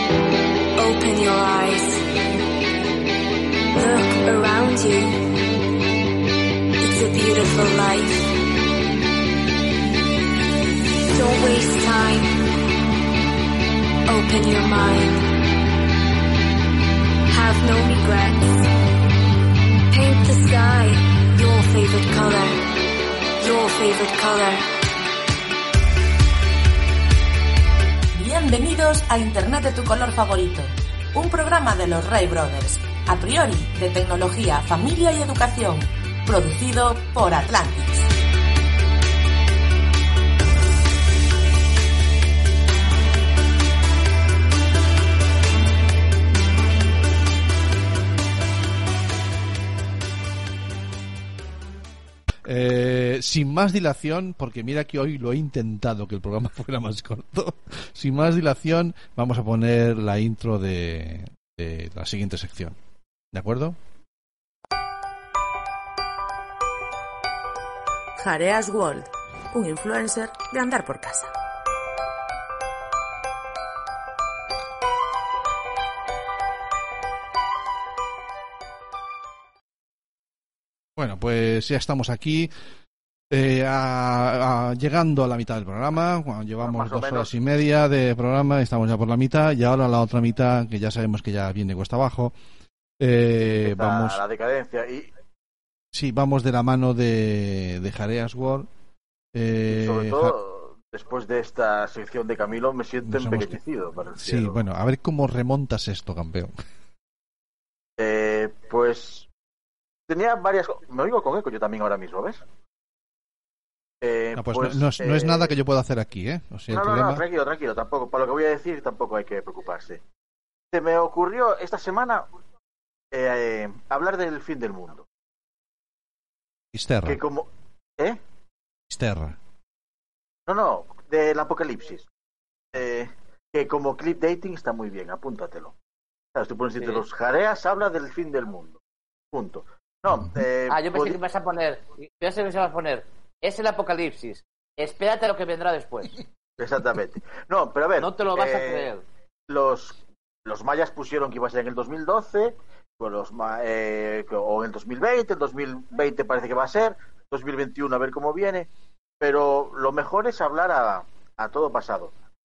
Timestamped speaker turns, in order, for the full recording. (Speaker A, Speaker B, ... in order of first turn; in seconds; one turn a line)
Speaker A: 0.8-2.0
Speaker A: 3.7-5.5
Speaker A: 6.8-8.4
Speaker A: 11.1-12.4
Speaker A: 14.1-15.2
Speaker A: 17.3-18.7
Speaker A: 19.9-22.7
Speaker A: 23.4-24.7
Speaker B: 28.1-38.1
Speaker C: 52.5-62.8
Speaker C: 63.3-63.8
Speaker B: 68.2-71.3
Speaker C: 81.0-82.5
Speaker C: 83.3-92.3
Speaker D: 86.6-87.3
Speaker C: 93.0-94.2
Speaker D: 93.5-95.1
Speaker C: 95.9-98.7
Speaker C: 99.3-100.3
Speaker D: 99.7-104.6
Speaker C: 103.0-103.6
Speaker C: 104.2-106.5
Speaker D: 108.0-109.3
Speaker D: 110.1-112.4
Speaker D: 114.0-115.6
Speaker C: 114.4-117.2
Speaker D: 116.7-120.0
Speaker D: 120.7-122.2
Speaker D: 123.1-125.1
Speaker C: 126.7-127.2
Speaker D: 127.1-128.2
Speaker C: 128.9-129.4
Speaker D: 130.5-132.1
Speaker D: 132.7-135.7
Speaker D: 136.3-138.8
Speaker E: 136.8-137.0
Speaker D: 139.3-141.2
Speaker E: 140.7-146.2
Speaker D: 146.6-148.9
Speaker E: 148.0-149.1
Speaker D: 149.5-158.7
Speaker D: 159.2-162.1